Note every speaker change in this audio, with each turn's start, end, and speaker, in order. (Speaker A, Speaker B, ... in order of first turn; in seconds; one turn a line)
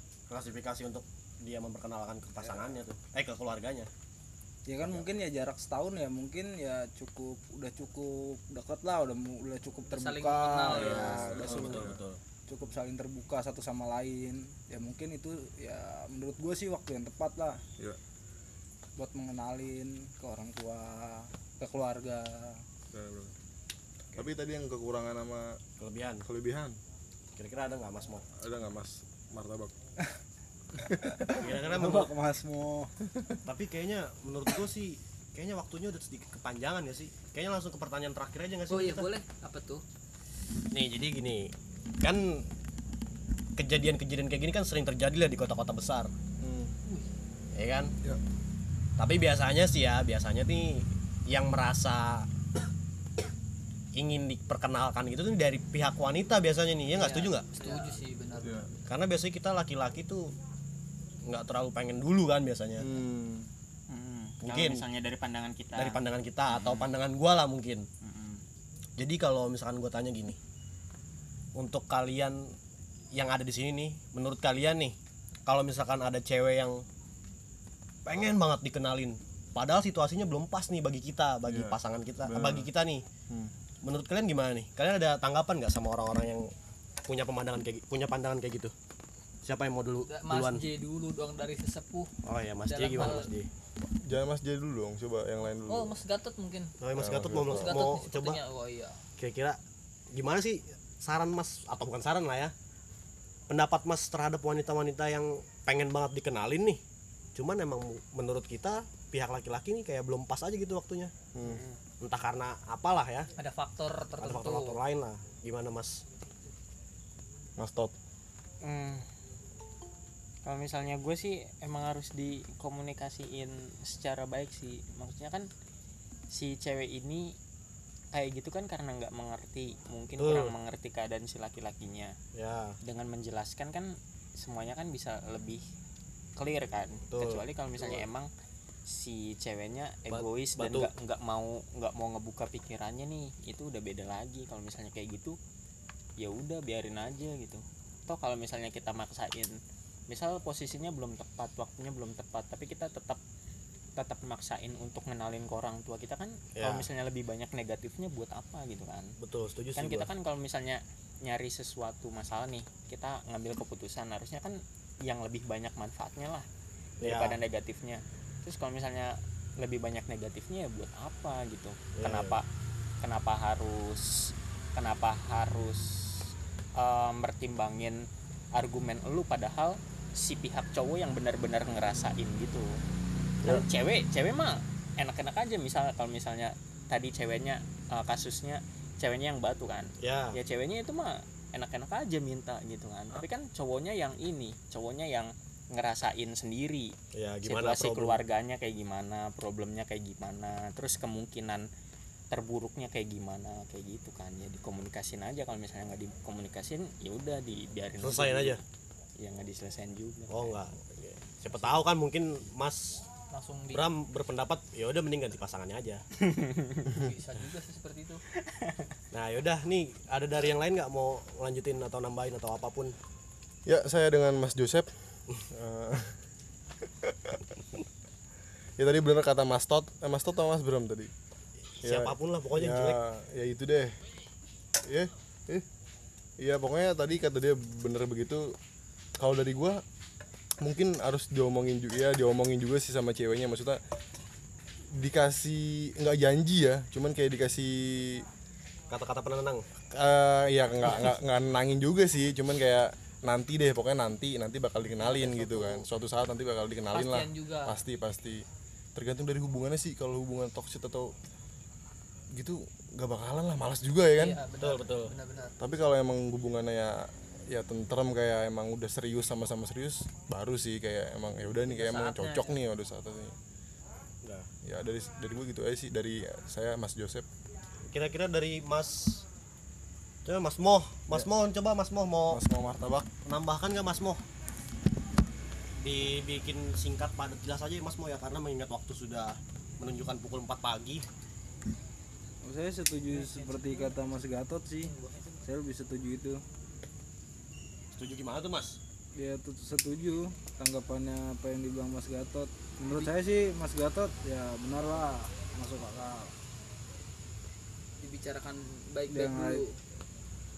Speaker A: 0.3-3.9
Speaker B: 4.7-11.9
Speaker C: 9.9-11.1
Speaker D: 10.7-12.0
Speaker A: 10.8-12.2
Speaker B: 12.5-17.6
Speaker B: 19.0-22.6
Speaker D: 22.9-23.4
Speaker D: 24.1-25.6
Speaker A: 25.8-26.3
Speaker D: 26.3-26.8
Speaker A: 27.4-28.2
Speaker D: 28.4-29.7
Speaker B: 30.8-32.9
Speaker A: 31.4-32.1
Speaker A: 33.5-39.1
Speaker C: 38.7-39.8
Speaker A: 40.7-42.5
Speaker A: 43.6-46.1
Speaker D: 46.4-46.7
Speaker A: 47.5-47.9
Speaker A: 49.0-52.3
Speaker A: 54.0-57.8
Speaker C: 56.9-58.9
Speaker D: 58.4-58.7
Speaker A: 58.9-60.3
Speaker A: 61.2-62.9
Speaker D: 62.8-63.5
Speaker E: 63.9-66.9
Speaker A: 64.4-64.8
Speaker A: 65.8-67.9
Speaker E: 68.0-68.4
Speaker A: 69.0-70.4
Speaker A: 71.5-72.5
Speaker A: 73.1-76.8
Speaker A: 78.0-83.1
Speaker D: 81.5-82.7
Speaker A: 83.8-86.5
Speaker A: 87.1-88.7
Speaker A: 89.4-90.6
Speaker C: 90.1-92.1
Speaker A: 92.2-93.5
Speaker C: 92.7-93.3
Speaker D: 94.0-96.0
Speaker C: 95.7-96.7
Speaker A: 96.8-98.4
Speaker D: 97.0-97.8
Speaker C: 97.5-99.0
Speaker A: 99.2-99.6
Speaker A: 100.1-102.5
Speaker A: 103.5-106.8
Speaker A: 107.3-111.1
Speaker D: 111.3-111.6
Speaker E: 111.4-111.8
Speaker A: 112.0-113.3
Speaker C: 113.4-114.8
Speaker A: 114.2-116.0
Speaker D: 117.6-117.9
Speaker E: 118.6-119.0
Speaker E: 120.5-125.5
Speaker E: 126.3-127.3
Speaker E: 128.1-132.1
Speaker A: 130.2-130.5
Speaker A: 132.3-132.8
Speaker E: 132.8-135.6
Speaker E: 136.4-138.3
Speaker A: 137.1-138.1
Speaker E: 138.9-145.4
Speaker A: 140.1-140.9
Speaker E: 146.2-149.6
Speaker E: 150.1-153.2
Speaker E: 154.0-159.1
Speaker A: 156.6-156.9
Speaker A: 159.2-160.1
Speaker E: 159.8-166.5
Speaker A: 167.0-167.3
Speaker E: 167.0-172.5
Speaker A: 171.9-172.4
Speaker E: 173.0-178.0
Speaker E: 178.6-182.7
Speaker E: 183.4-196.9
Speaker A: 190.0-190.4
Speaker A: 197.2-198.2
Speaker E: 197.4-201.7
Speaker E: 202.3-208.6
Speaker A: 208.0-208.6
Speaker E: 209.2-210.6
Speaker A: 210.3-213.0
Speaker C: 213.3-213.9
Speaker A: 213.7-216.0
Speaker E: 216.2-217.0
Speaker C: 216.9-218.2
Speaker E: 218.4-218.9
Speaker A: 219.1-222.9
Speaker D: 223.7-224.9
Speaker D: 225.5-226.2
Speaker D: 227.0-227.6
Speaker D: 228.8-231.1
Speaker A: 231.8-233.0
Speaker D: 231.8-233.9
Speaker D: 234.9-235.7
Speaker D: 236.4-238.5
Speaker D: 239.2-239.8
Speaker D: 240.6-243.8
Speaker D: 244.9-248.2
Speaker A: 248.9-249.6
Speaker D: 249.9-258.4
Speaker C: 255.0-255.8
Speaker C: 256.9-257.8
Speaker D: 258.9-261.1
Speaker D: 262.4-264.4
Speaker C: 264.1-265.6
Speaker A: 264.6-265.1
Speaker D: 265.6-273.4
Speaker C: 271.7-272.6
Speaker A: 274.2-274.5
Speaker D: 274.6-277.3
Speaker A: 277.9-279.2
Speaker A: 280.2-282.4
Speaker D: 282.3-283.1
Speaker A: 283.2-284.2
Speaker A: 285.8-291.1
Speaker B: 292.4-294.9
Speaker E: 293.1-294.2
Speaker E: 294.8-295.4
Speaker B: 295.4-296.4
Speaker A: 298.0-298.8
Speaker B: 299.1-306.3
Speaker C: 308.0-309.8
Speaker B: 309.1-309.6